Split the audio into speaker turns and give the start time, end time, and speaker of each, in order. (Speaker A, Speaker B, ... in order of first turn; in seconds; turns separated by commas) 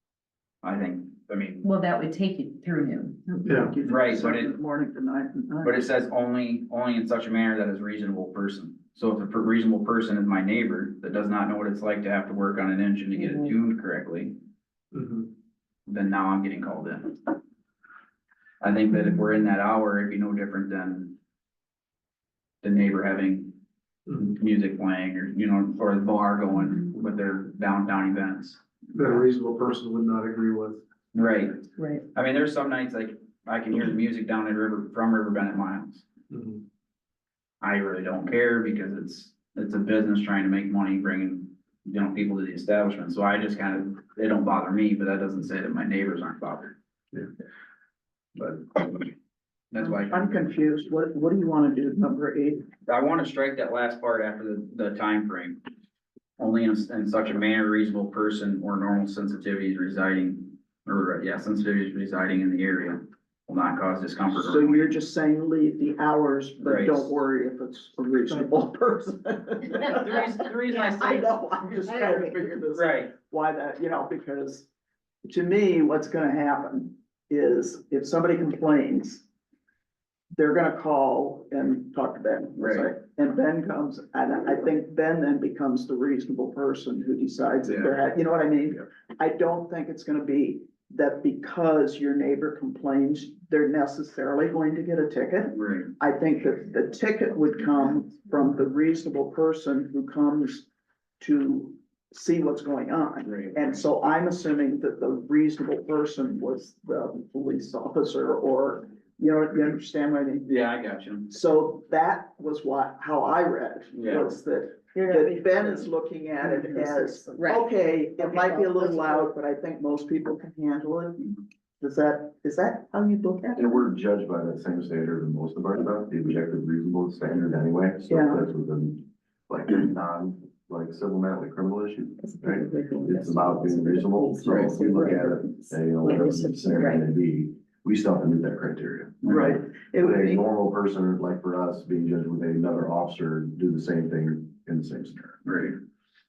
Speaker A: 0.6-1.6, Speaker B: 1.6-3.5, Speaker C: 3.4-3.7, Speaker D: 3.4-5.8, Speaker A: 3.8-4.5, Speaker A: 5.6-14.4, Speaker C: 14.9-15.3, Speaker A: 15.9-17.2, Speaker A: 18.6-21.2, Speaker A: 22.6-23.6, Speaker C: 24.1-24.4, Speaker A: 24.4-29.2, Speaker C: 28.9-30.8, Speaker A: 31.1-36.0, Speaker C: 36.3-36.6, Speaker A: 37.6-46.7, Speaker A: 48.4-49.1, Speaker A: 49.7-50.4, Speaker D: 49.8-52.7, Speaker A: 52.9-55.6, Speaker A: 56.4-64.9, Speaker D: 64.3-74.7, Speaker A: 66.6-67.1, Speaker A: 69.8-71.3, Speaker B: 71.9-72.3, Speaker A: 71.9-73.1, Speaker D: 75.2-79.2, Speaker D: 80.3-100.7, Speaker A: 82.6-82.9, Speaker A: 87.6-88.0, Speaker A: 95.5-95.9, Speaker D: 101.2-110.5, Speaker A: 103.2-103.8, Speaker A: 110.5-111.3, Speaker D: 111.3-121.2, Speaker A: 113.9-114.3, Speaker B: 114.9-115.8, Speaker B: 116.4-117.6, Speaker B: 118.2-119.3, Speaker D: 121.8-123.8, Speaker E: 123.5-145.4, Speaker D: 128.1-128.4, Speaker B: 132.2-137.0, Speaker A: 139.2-139.6, Speaker D: 139.2-140.4, Speaker A: 145.4-145.8